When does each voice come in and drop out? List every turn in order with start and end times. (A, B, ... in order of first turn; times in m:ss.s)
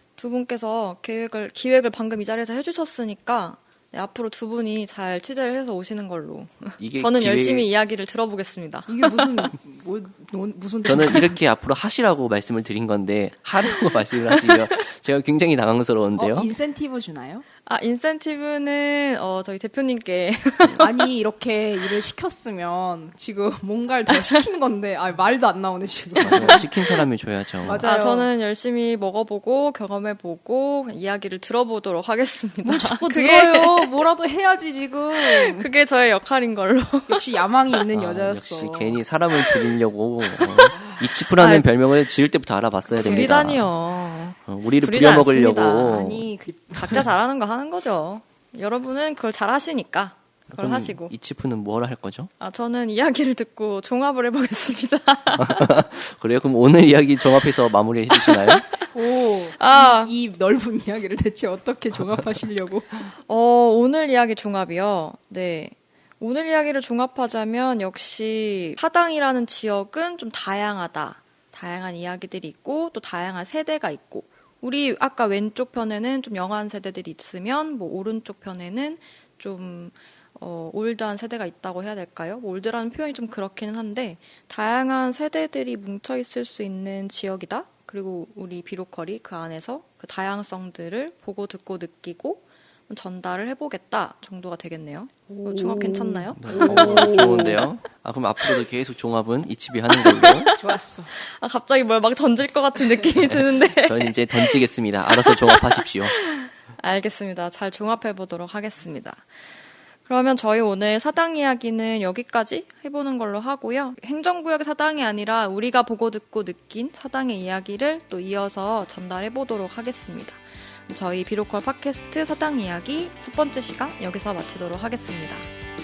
0:00.2-0:09.5 A
0:06.8-0:07.7 B
0:08.9-0:11.4 C
0:10.8-0:16.5 B
0:16.2-0:17.4 C
0:17.6-0:21.1 A
0:20.7-0:27.0 C
0:26.2-0:26.6 A
0:26.2-0:27.9 B
0:27.6-0:28.3 C
0:27.8-0:33.9 A
0:32.6-0:35.7 C
0:35.1-0:37.8 A
0:37.1-0:39.0 C
0:37.9-0:43.7 B
0:39.3-0:39.7 A
0:40.2-0:40.7 A
0:40.7-0:41.1 C
0:41.3-0:41.9 A
0:42.9-0:46.1 A
0:42.9-0:43.5 C
0:44.4-0:46.3 B
0:45.3-0:47.1 C
0:46.7-0:51.1 A
0:50.5-0:52.3 B
0:52.4-0:55.7 A
0:55.4-0:58.8 B
0:58.1-1:00.1 A
0:58.9-1:03.1 C
1:03.2-1:37.6 A
1:35.3-1:37.6 C
1:36.4-1:40.5 B
1:40.1-2:05.5 A
1:40.5-1:41.1 C
1:43.2-1:46.1 B